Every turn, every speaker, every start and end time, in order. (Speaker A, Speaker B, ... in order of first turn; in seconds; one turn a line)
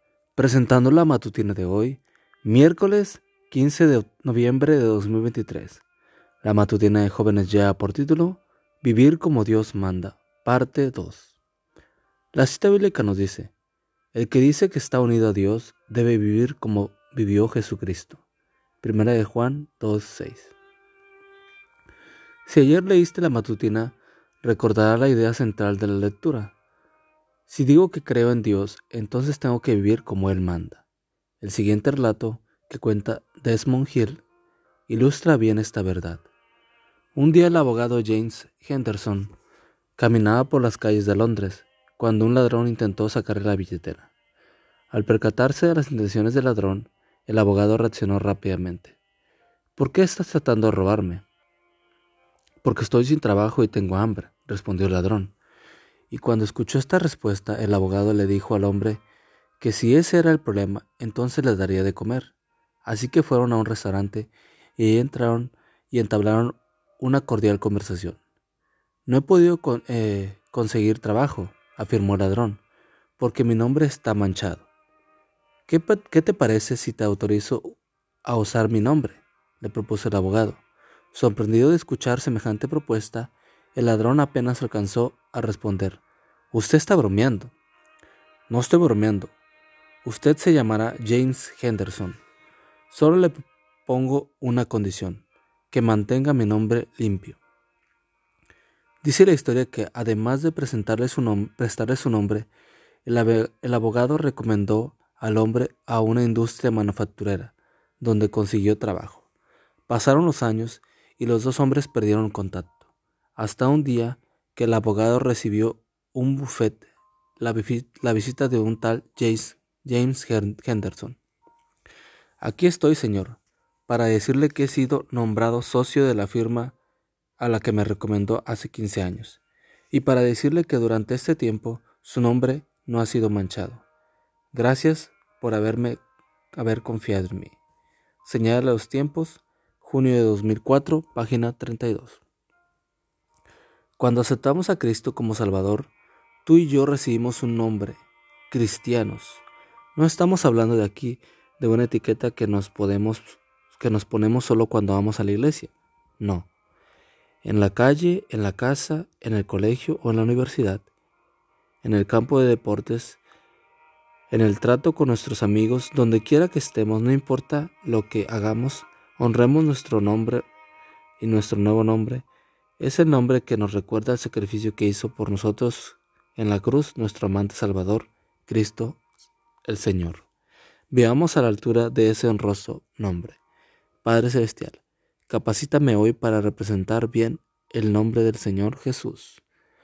Speaker A: 0.3-5.8
Speaker A: 6.4-11.3
Speaker A: 12.3-13.5
Speaker A: 14.1-18.2
Speaker A: 18.8-20.5
Speaker A: 22.4-26.5
Speaker A: 27.5-30.8
Speaker A: 31.4-34.2
Speaker A: 34.9-36.2
Speaker A: 37.1-39.3
Speaker A: 40.0-44.1
Speaker A: 44.9-49.0
Speaker A: 49.8-51.2
Speaker A: 52.6-55.3
Speaker A: 56.1-59.0
Speaker A: 59.6-62.3
Speaker A: 62.8-68.2
Speaker A: 69.1-72.6
Speaker A: 73.2-74.7
Speaker A: 75.7-86.0
Speaker A: 86.5-87.5
Speaker A: 88.5-89.3
Speaker A: 90.0-92.2
Speaker A: 92.9-97.4
Speaker A: 99.0-102.5
Speaker A: 103.0-109.2
Speaker A: 109.9-112.8
Speaker A: 113.4-121.2
Speaker A: 122.4-126.8
Speaker A: 127.4-133.8
Speaker A: 134.5-136.0
Speaker A: 136.5-137.6
Speaker A: 138.2-142.2
Speaker A: 144.0-145.9
Speaker A: 146.4-149.4
Speaker A: 149.9-156.5
Speaker A: 157.4-160.8
Speaker A: 161.8-163.2
Speaker A: 164.3-170.5
Speaker A: 171.2-172.3
Speaker A: 172.8-179.0
Speaker A: 179.7-180.3
Speaker A: 180.9-183.4
Speaker A: 184.0-189.4